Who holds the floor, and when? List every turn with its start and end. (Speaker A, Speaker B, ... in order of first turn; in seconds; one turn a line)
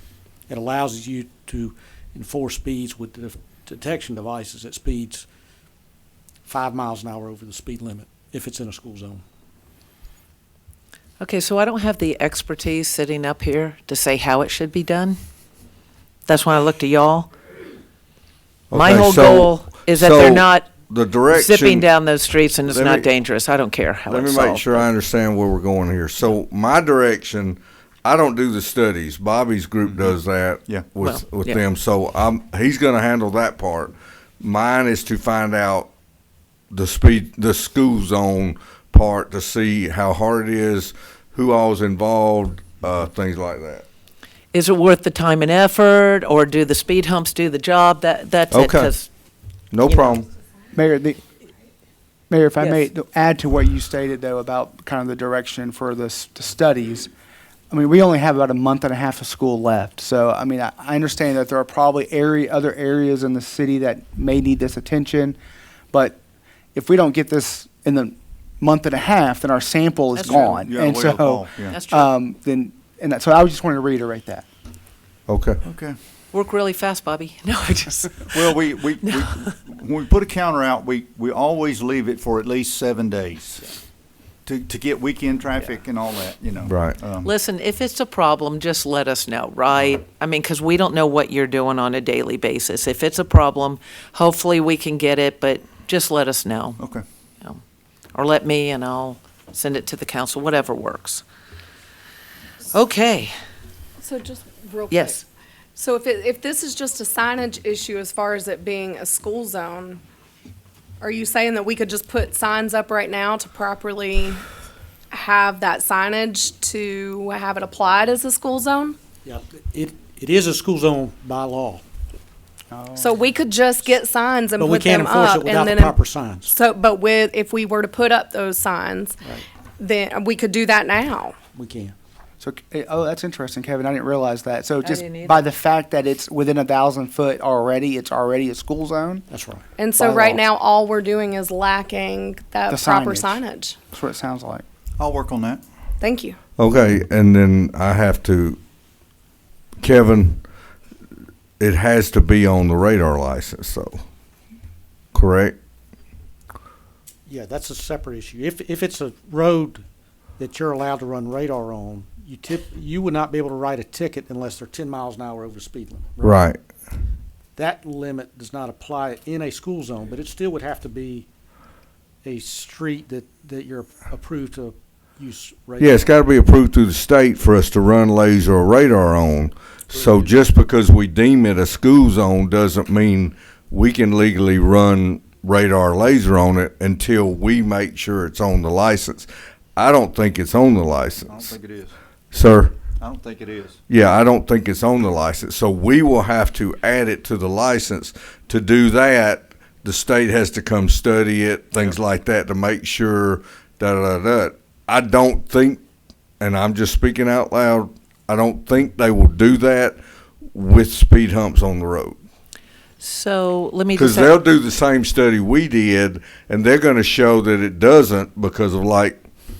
Speaker A: 0.5-5.3
Speaker A: 6.5-9.2
Speaker B: 11.2-15.2
Speaker B: 16.3-17.3
Speaker C: 18.7-21.9
Speaker B: 18.7-20.7
Speaker B: 21.3-24.9
Speaker C: 22.6-23.1
Speaker C: 24.1-35.9
Speaker D: 29.8-30.9
Speaker B: 31.0-31.6
Speaker C: 36.7-43.9
Speaker B: 44.5-49.1
Speaker C: 48.5-48.9
Speaker C: 49.7-50.3
Speaker E: 50.8-51.2
Speaker E: 52.3-57.1
Speaker E: 57.7-65.4
Speaker E: 65.9-66.2
Speaker E: 66.7-74.5
Speaker B: 70.1-70.6
Speaker D: 70.2-71.8
Speaker B: 71.7-72.1
Speaker C: 75.3-75.6
Speaker D: 75.6-76.0
Speaker B: 76.3-78.3
Speaker D: 78.3-83.8
Speaker B: 79.0-79.3
Speaker D: 84.5-87.3
Speaker C: 86.7-87.0
Speaker B: 87.2-96.8
Speaker D: 96.8-97.0
Speaker B: 98.1-101.2
Speaker B: 102.7-103.3
Speaker F: 104.0-105.2
Speaker B: 104.9-105.2
Speaker F: 105.8-110.0
Speaker F: 111.0-114.4
Speaker F: 115.1-119.0
Speaker A: 119.2-121.8
Speaker E: 122.7-123.1
Speaker F: 123.0-129.2
Speaker A: 124.6-126.5
Speaker F: 129.8-131.3
Speaker A: 131.5-131.9
Speaker E: 132.4-139.3
Speaker B: 134.8-135.4
Speaker A: 139.3-139.6
Speaker F: 139.8-143.8
Speaker E: 140.0-140.4
Speaker E: 142.7-144.6
Speaker D: 145.0-145.6
Speaker F: 146.0-146.4
Speaker C: 146.6-148.6
Speaker C: 149.8-150.4
Speaker C: 151.6-154.0
Speaker C: 155.1-155.6
Speaker A: 157.3-159.8
Speaker A: 160.4-166.4
Speaker C: 166.2-166.6
Speaker A: 167.6-171.3
Speaker A: 172.2-176.2
Speaker C: 175.8-191.6
Speaker A: 179.9-180.4
Speaker D: 191.3-192.0
Speaker C: 192.3-192.8
Speaker D: 193.0-193.8
Speaker C: 193.9-205.8
Speaker C: 206.4-210.0
Speaker C: 210.5-212.2
Speaker B: 213.0-214.4
Speaker C: 213.9-219.2